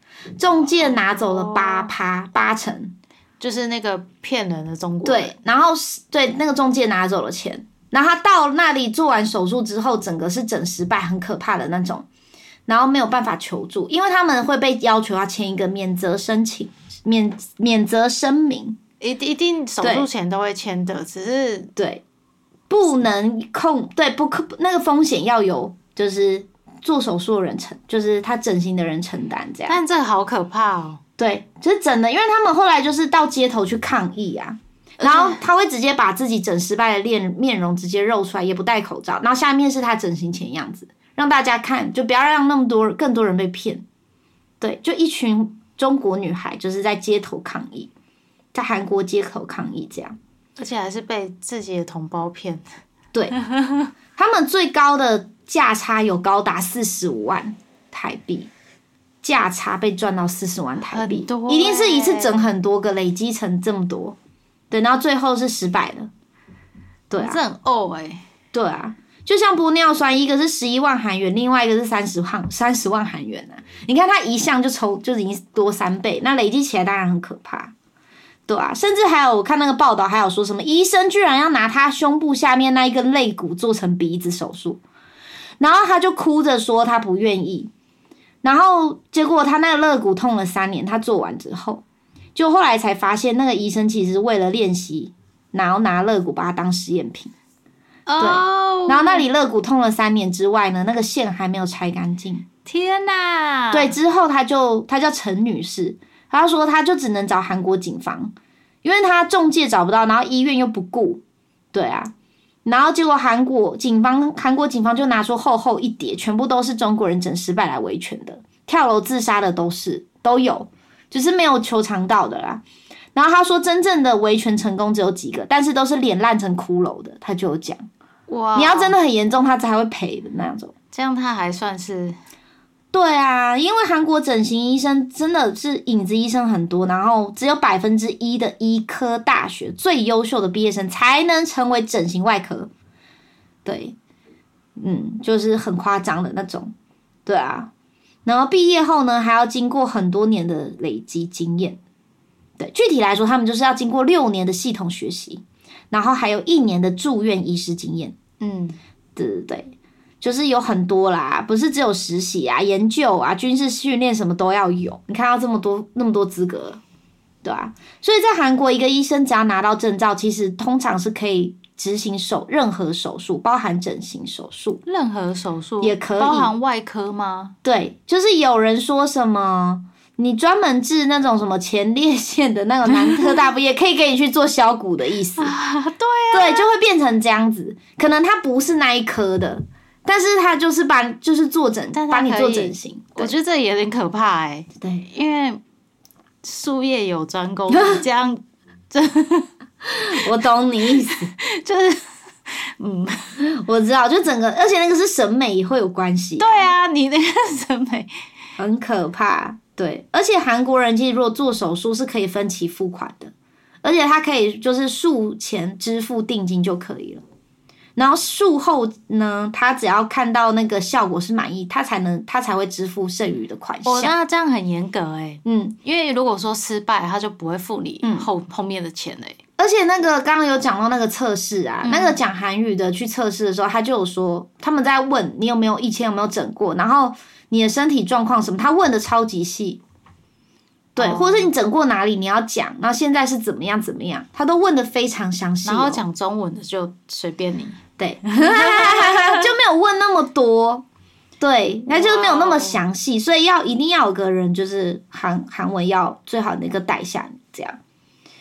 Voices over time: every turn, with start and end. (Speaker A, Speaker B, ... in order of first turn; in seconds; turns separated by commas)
Speaker A: 0.4-2.9, Speaker B: 0.8-1.9, Speaker B: 3.4-5.3, Speaker A: 5.0-12.1, Speaker A: 12.7-18.8, Speaker B: 19.0-21.7, Speaker A: 19.8-20.1, Speaker A: 21.8-22.0, Speaker A: 22.7-29.8, Speaker B: 29.7-31.0, Speaker A: 31.2-43.8, Speaker B: 35.0-35.4, Speaker A: 44.6-47.9, Speaker A: 48.5-50.2, Speaker B: 50.6-52.7, Speaker A: 53.1-53.4, Speaker B: 53.4-53.9, Speaker A: 54.2-58.5, Speaker A: 59.2-64.2, Speaker B: 60.9-62.5, Speaker A: 64.7-66.1, Speaker A: 67.1-67.4, Speaker B: 67.2-68.2, Speaker A: 68.5-77.7, Speaker A: 78.5-84.8, Speaker A: 85.6-87.7, Speaker A: 88.4-91.8, Speaker A: 92.3-97.3, Speaker B: 98.1-99.3, Speaker A: 98.2-102.5, Speaker B: 102.7-103.9, Speaker A: 103.7-111.2, Speaker A: 111.7-112.1, Speaker A: 112.7-122.6, Speaker A: 123.2-127.8, Speaker B: 128.3-129.0, Speaker A: 128.6-130.7, Speaker B: 130.9-132.2, Speaker A: 132.9-142.7, Speaker A: 143.7-144.0, Speaker A: 144.8-146.7, Speaker A: 147.3-147.7, Speaker A: 148.2-151.8, Speaker A: 152.6-158.2, Speaker B: 158.4-158.8, Speaker A: 159.2-166.8, Speaker A: 167.4-174.8, Speaker B: 174.9-177.6, Speaker A: 175.8-176.5, Speaker A: 177.6-185.6, Speaker B: 182.9-183.4, Speaker B: 185.4-186.7, Speaker A: 186.3-193.3, Speaker B: 191.9-195.6, Speaker A: 194.8-195.1, Speaker B: 196.4-199.5, Speaker A: 197.7-198.0, Speaker A: 199.9-201.3, Speaker B: 201.1-203.4, Speaker A: 203.4-206.7, Speaker B: 206.4-208.1, Speaker A: 208.6-213.3, Speaker A: 213.8-217.2, Speaker A: 218.0-224.1, Speaker B: 223.8-229.4, Speaker A: 225.4-225.8, Speaker A: 228.0-228.3, Speaker A: 229.6-239.8, Speaker B: 231.8-232.2, Speaker A: 240.9-246.0, Speaker B: 241.0-241.5, Speaker B: 245.7-247.8, Speaker A: 248.0-250.8, Speaker B: 248.4-249.5, Speaker A: 251.4-257.8, Speaker B: 251.9-252.8